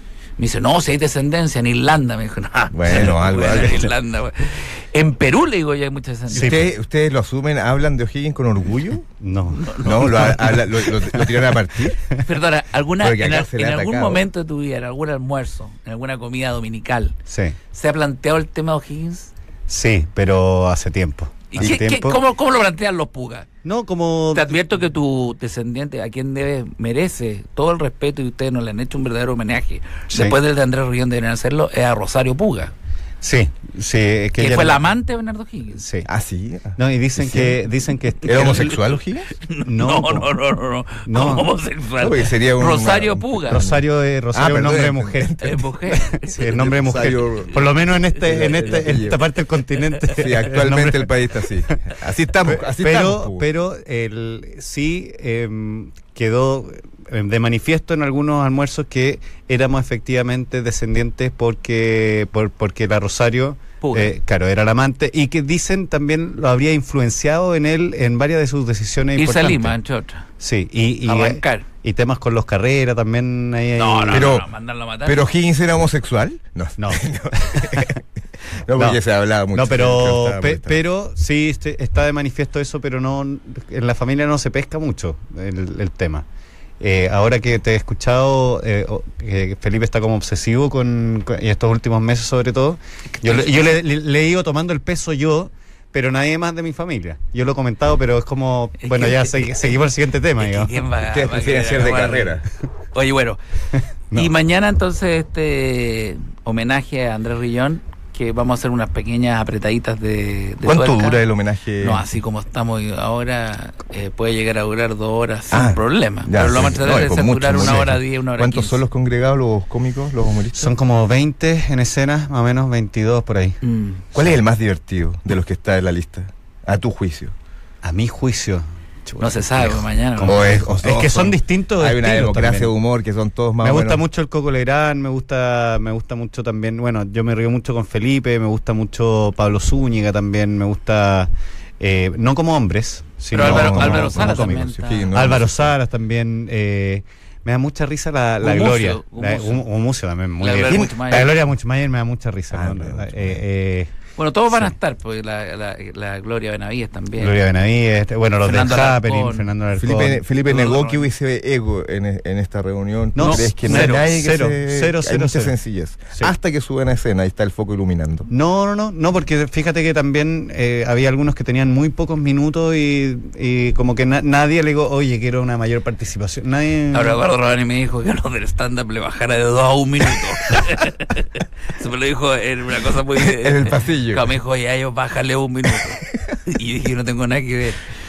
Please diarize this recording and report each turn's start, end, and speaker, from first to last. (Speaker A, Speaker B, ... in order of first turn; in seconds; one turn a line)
Speaker A: 0.4-6.7
Speaker B: 2.7-3.9
Speaker B: 6.3-9.1
Speaker C: 6.3-6.7
Speaker C: 9.2-10.6
Speaker A: 9.5-10.7
Speaker B: 9.8-12.1
Speaker A: 12.1-17.1
Speaker B: 13.0-14.2
Speaker C: 17.3-17.6
Speaker A: 17.7-19.3
Speaker C: 19.7-22.2
Speaker A: 21.5-23.5
Speaker C: 23.6-24.6
Speaker A: 24.3-32.7
Speaker C: 30.1-30.4
Speaker C: 33.2-34.8
Speaker A: 34.4-35.8
Speaker C: 35.8-36.1
Speaker B: 36.0-37.6
Speaker C: 36.8-38.8
Speaker B: 38.2-39.3
Speaker A: 38.3-43.6
Speaker C: 39.6-40.3
Speaker C: 41.0-41.5
Speaker B: 42.0-43.8
Speaker C: 43.5-51.7
Speaker B: 44.3-45.6
Speaker A: 45.4-47.1
Speaker B: 46.5-47.6
Speaker B: 48.2-49.2
Speaker B: 50.1-53.4
Speaker C: 52.4-69.8
Speaker A: 63.8-64.1
Speaker A: 69.2-70.2
Speaker C: 70.4-74.3
Speaker A: 71.0-71.7
Speaker A: 73.8-75.3
Speaker B: 74.1-74.5
Speaker B: 75.0-78.0
Speaker C: 76.8-78.0
Speaker B: 78.6-80.8
Speaker C: 78.7-79.0
Speaker C: 79.5-86.2
Speaker C: 86.8-100.7
Speaker A: 93.1-93.6
Speaker A: 98.8-99.7
Speaker A: 100.4-102.4
Speaker B: 101.0-102.5
Speaker A: 102.9-103.4
Speaker C: 103.7-104.3
Speaker A: 104.1-111.2
Speaker B: 110.7-112.0
Speaker A: 111.8-118.8
Speaker B: 115.5-120.7
Speaker C: 120.5-123.6
Speaker A: 123.6-124.1
Speaker B: 124.1-127.3
Speaker C: 127.8-132.7
Speaker A: 129.2-130.6
Speaker B: 130.2-134.0
Speaker C: 133.6-153.9
Speaker A: 143.3-145.2
Speaker B: 143.3-145.7
Speaker A: 148.4-149.6
Speaker A: 150.4-151.3
Speaker B: 150.7-150.9
Speaker B: 152.5-153.4
Speaker A: 154.2-157.4
Speaker C: 157.2-160.2
Speaker A: 158.4-159.5
Speaker B: 159.8-168.3
Speaker A: 160.4-161.1
Speaker C: 163.2-165.6
Speaker A: 163.2-164.1
Speaker C: 168.3-177.2
Speaker A: 176.9-187.8
Speaker B: 183.2-184.3